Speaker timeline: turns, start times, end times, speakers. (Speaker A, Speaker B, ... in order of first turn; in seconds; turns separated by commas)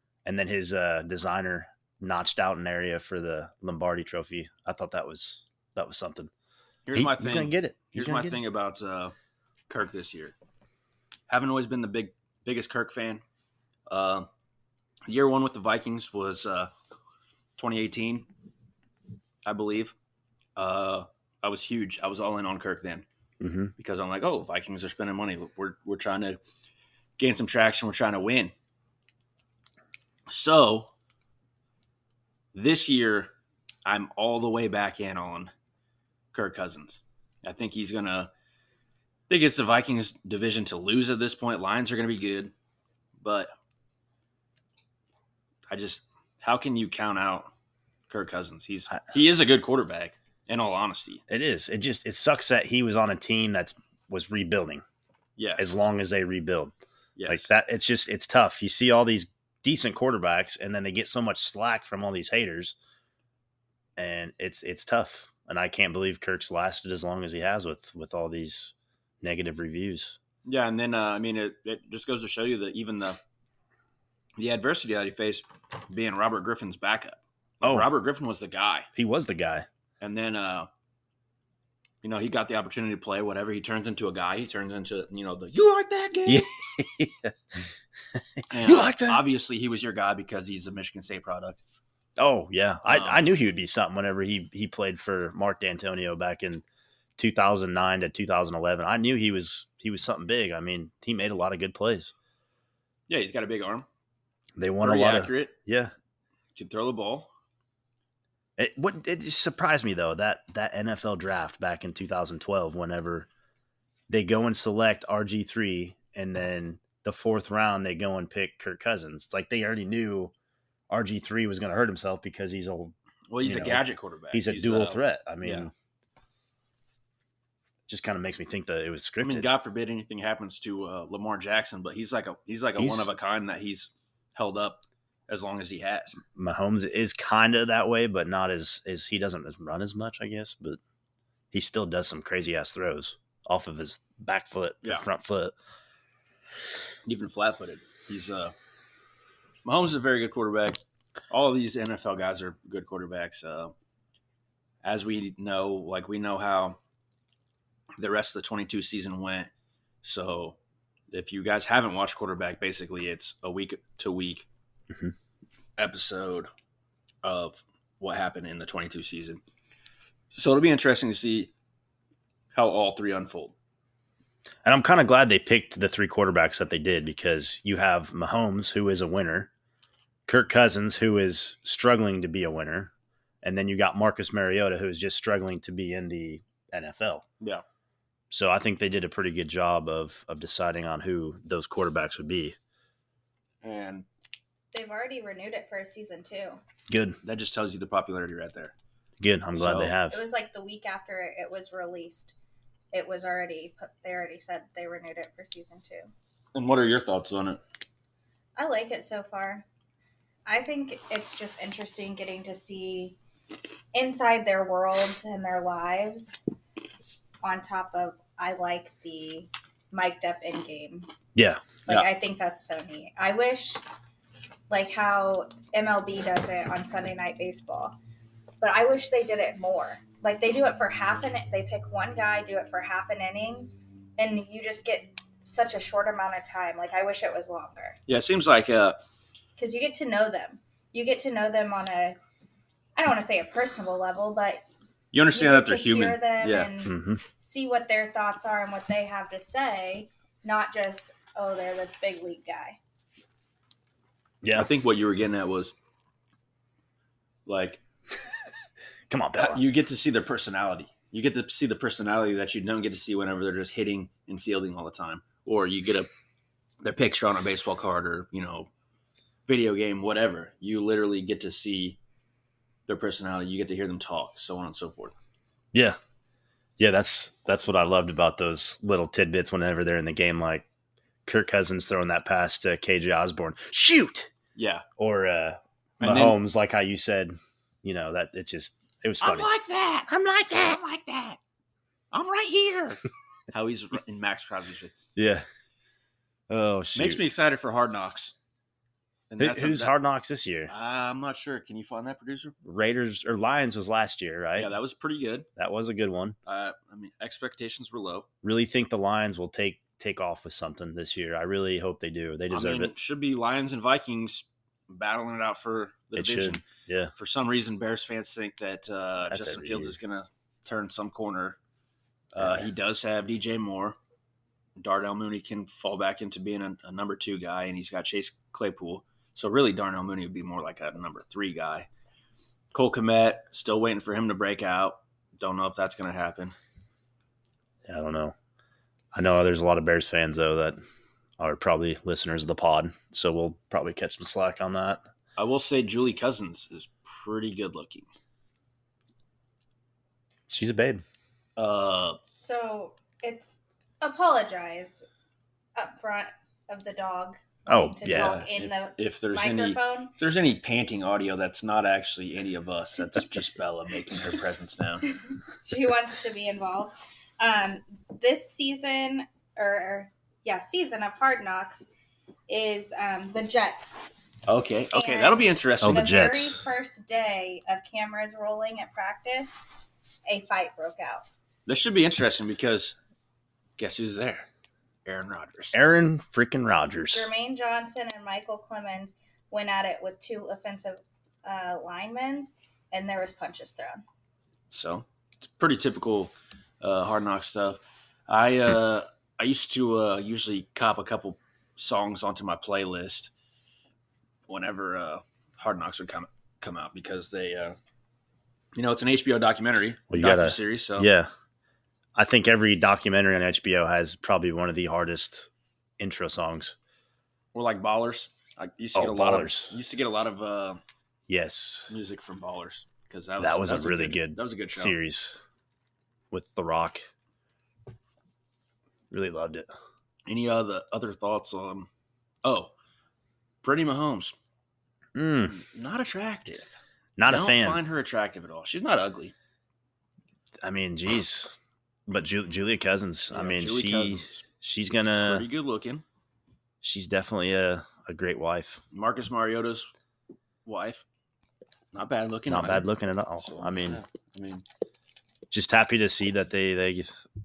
Speaker A: 0.2-6.3, Speaker B: 6.9-9.2, Speaker A: 6.9-8.4, Speaker B: 9.7-10.3, Speaker B: 11.3-13.2, Speaker B: 13.9-14.3, Speaker B: 15.1-16.7, Speaker B: 17.6-18.3, Speaker B: 19.4-19.9, Speaker B: 20.6-23.1, Speaker A: 23.4-23.7, Speaker B: 23.8-26.4, Speaker B: 27.2-28.5, Speaker B: 30.3-30.9, Speaker B: 32.5-33.3, Speaker B: 33.9-35.5, Speaker B: 36.3-38.3, Speaker B: 39.3-42.5, Speaker B: 43.2-43.5, Speaker B: 45.7-47.5, Speaker B: 48.1-51.2, Speaker A: 51.3-54.8, Speaker B: 55.4-55.7, Speaker A: 55.6-56.7, Speaker B: 57.2-57.5, Speaker A: 57.3-62.8, Speaker A: 64.0-70.2, Speaker B: 70.5-73.2, Speaker B: 74.4-78.9, Speaker A: 77.6-77.9, Speaker A: 79.0-79.7, Speaker B: 80.0-80.7, Speaker B: 82.0-86.5, Speaker A: 86.3-87.3, Speaker A: 88.1-89.2, Speaker B: 88.5-91.6, Speaker A: 92.2-96.6, Speaker B: 92.9-93.2, Speaker A: 97.2-102.1, Speaker B: 103.1-103.9, Speaker A: 104.6-105.9, Speaker B: 104.8-105.5, Speaker B: 106.6-107.3, Speaker A: 108.6-113.3, Speaker A: 114.1-120.3, Speaker A: 120.9-125.7, Speaker B: 123.3-125.7, Speaker A: 127.9-129.5, Speaker B: 129.2-136.2, Speaker A: 132.8-133.1, Speaker A: 136.3-140.8, Speaker A: 141.5-145.5, Speaker B: 147.1-148.5, Speaker B: 149.7-153.7, Speaker B: 154.8-156.8, Speaker B: 158.0-159.5, Speaker B: 160.0-160.6, Speaker B: 161.1-164.5, Speaker B: 165.8-166.5, Speaker B: 167.2-169.4, Speaker B: 170.3-171.5, Speaker B: 172.5-173.5, Speaker A: 174.7-179.5, Speaker A: 180.3-182.9, Speaker A: 183.4-187.2, Speaker A: 188.3-192.6, Speaker B: 193.6-194.1, Speaker C: 194.7-196.6, Speaker A: 196.9-197.2, Speaker B: 197.2-198.7, Speaker A: 199.2-200.2, Speaker B: 199.6-199.9, Speaker C: 200.1-202.3, Speaker C: 202.9-206.1, Speaker B: 206.6-207.6, Speaker C: 208.6-209.7, Speaker C: 210.5-213.2, Speaker C: 213.9-216.4, Speaker C: 217.4-221.1, Speaker A: 221.3-221.7, Speaker C: 221.9-223.8, Speaker C: 224.7-228.0, Speaker C: 228.6-238.0, Speaker B: 238.1-239.0, Speaker C: 239.6-242.2, Speaker C: 243.0-244.7, Speaker B: 245.1-246.7, Speaker C: 245.3-252.8, Speaker A: 246.8-247.2, Speaker A: 254.4-254.7, Speaker B: 254.5-255.7, Speaker B: 257.5-257.8, Speaker A: 259.1-259.6, Speaker B: 259.4-266.1, Speaker B: 266.8-268.7, Speaker B: 269.5-272.0, Speaker B: 272.9-275.1, Speaker A: 276.8-280.7, Speaker A: 281.3-284.3, Speaker B: 284.6-284.8, Speaker A: 285.0-289.5, Speaker B: 286.0-286.4, Speaker B: 289.2-291.4, Speaker A: 290.1-290.8, Speaker B: 292.1-294.9, Speaker A: 295.2-295.4, Speaker A: 296.5-297.2, Speaker B: 296.9-298.3, Speaker B: 299.3-299.9, Speaker A: 299.4-300.7, Speaker B: 300.7-302.6, Speaker A: 302.6-304.7, Speaker B: 304.6-305.5, Speaker A: 305.6-306.4, Speaker B: 306.5-308.3, Speaker A: 308.4-312.9, Speaker B: 312.5-316.6, Speaker A: 316.1-317.1, Speaker B: 317.2-321.6, Speaker A: 319.3-320.0, Speaker B: 322.3-324.0, Speaker A: 322.4-322.7, Speaker B: 324.8-331.9, Speaker B: 332.7-336.5, Speaker A: 337.9-338.3, Speaker A: 339.1-340.8, Speaker A: 341.4-345.0, Speaker B: 345.4-348.1, Speaker A: 350.5-351.0, Speaker B: 351.6-352.2, Speaker C: 352.3-355.1, Speaker C: 355.8-360.1, Speaker A: 357.7-358.4, Speaker B: 358.1-365.1, Speaker C: 365.6-371.9, Speaker C: 372.5-374.1, Speaker B: 374.5-376.1, Speaker C: 374.9-379.6, Speaker A: 375.8-376.6, Speaker C: 380.3-381.3, Speaker B: 381.7-383.0, Speaker B: 383.8-384.5, Speaker B: 385.1-385.8, Speaker A: 385.7-387.3, Speaker C: 387.1-394.0, Speaker B: 394.7-403.3, Speaker B: 404.5-407.8, Speaker B: 408.8-411.1, Speaker A: 410.1-411.3, Speaker A: 412.2-416.8, Speaker B: 417.5-420.8, Speaker A: 418.9-419.7, Speaker A: 421.3-421.9, Speaker B: 421.9-424.9, Speaker A: 423.4-425.4, Speaker A: 426.3-427.1, Speaker A: 429.1-429.7, Speaker B: 430.3-431.9, Speaker B: 432.4-432.7, Speaker B: 433.6-434.4, Speaker A: 435.2-435.6, Speaker B: 435.5-439.3, Speaker A: 437.2-437.8, Speaker A: 440.6-441.5, Speaker A: 442.1-445.5, Speaker B: 443.3-444.5, Speaker B: 445.2-446.1, Speaker A: 446.8-448.8, Speaker B: 448.9-449.9, Speaker B: 450.6-451.0, Speaker B: 451.9-452.9, Speaker A: 452.5-454.0, Speaker B: 453.4-454.6, Speaker A: 455.5-457.1